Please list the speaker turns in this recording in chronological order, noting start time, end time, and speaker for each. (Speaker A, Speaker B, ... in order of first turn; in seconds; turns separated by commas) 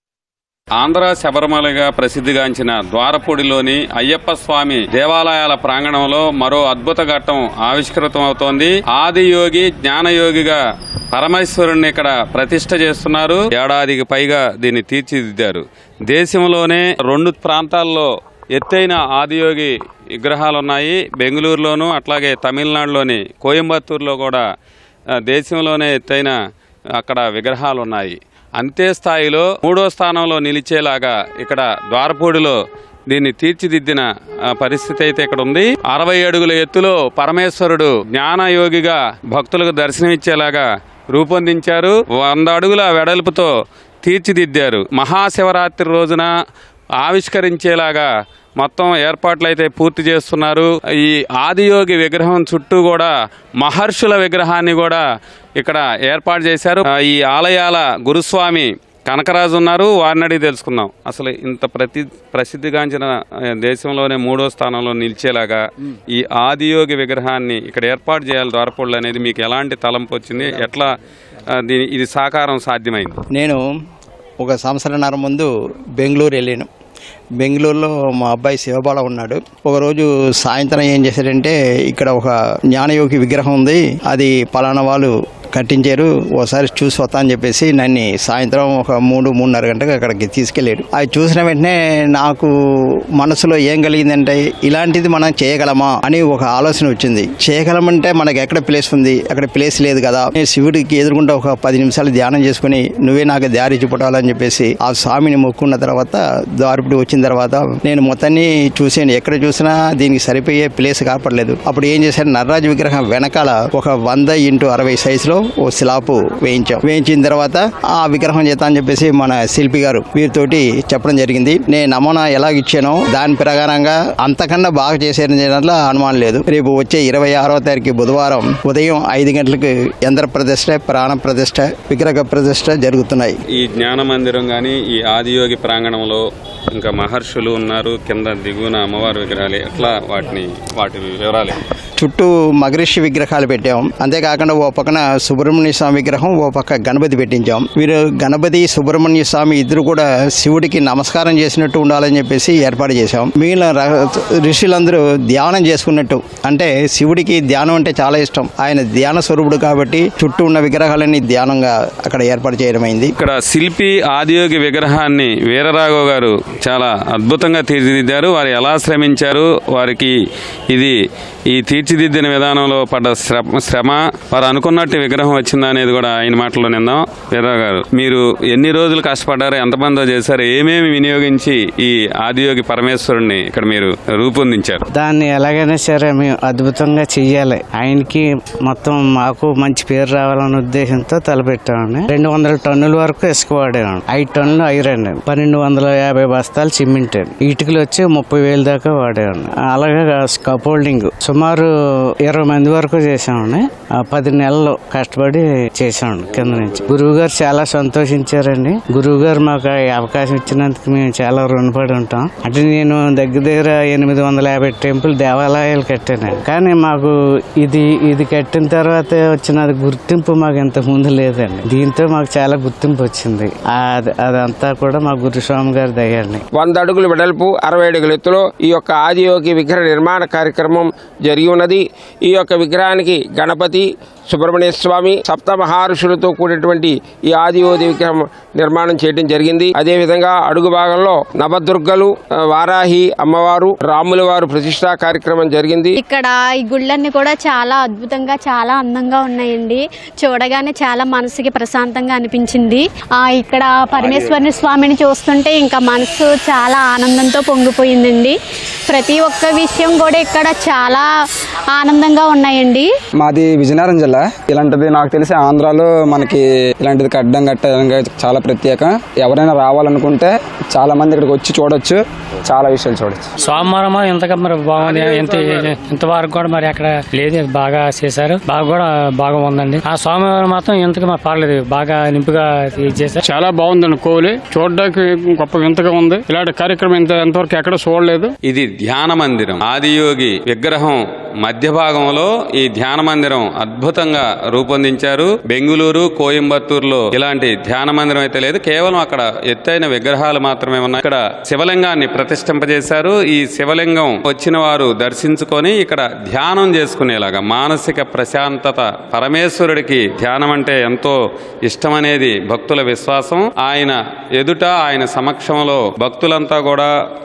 Speaker A: 0.8-10.6, Speaker A: 11.1-24.4, Speaker A: 25.2-26.4, Speaker A: 27.0-32.6, Speaker A: 33.1-43.5, Speaker A: 44.0-46.3, Speaker A: 47.0-55.0, Speaker A: 55.6-65.6, Speaker A: 66.1-70.9, Speaker A: 71.6-73.2, Speaker B: 73.3-73.6, Speaker B: 74.4-76.7, Speaker B: 77.4-92.5, Speaker B: 93.2-133.4, Speaker A: 133.5-141.6, Speaker B: 142.0-163.1, Speaker A: 163.2-170.1, Speaker A: 171.5-184.8, Speaker C: 184.9-201.7, Speaker C: 202.3-226.4, Speaker D: 226.6-233.8, Speaker D: 234.3-245.9, Speaker E: 246.0-262.9, Speaker F: 263.2-273.3, Speaker G: 273.4-283.2, Speaker H: 283.2-288.3, Speaker A: 288.5-316.9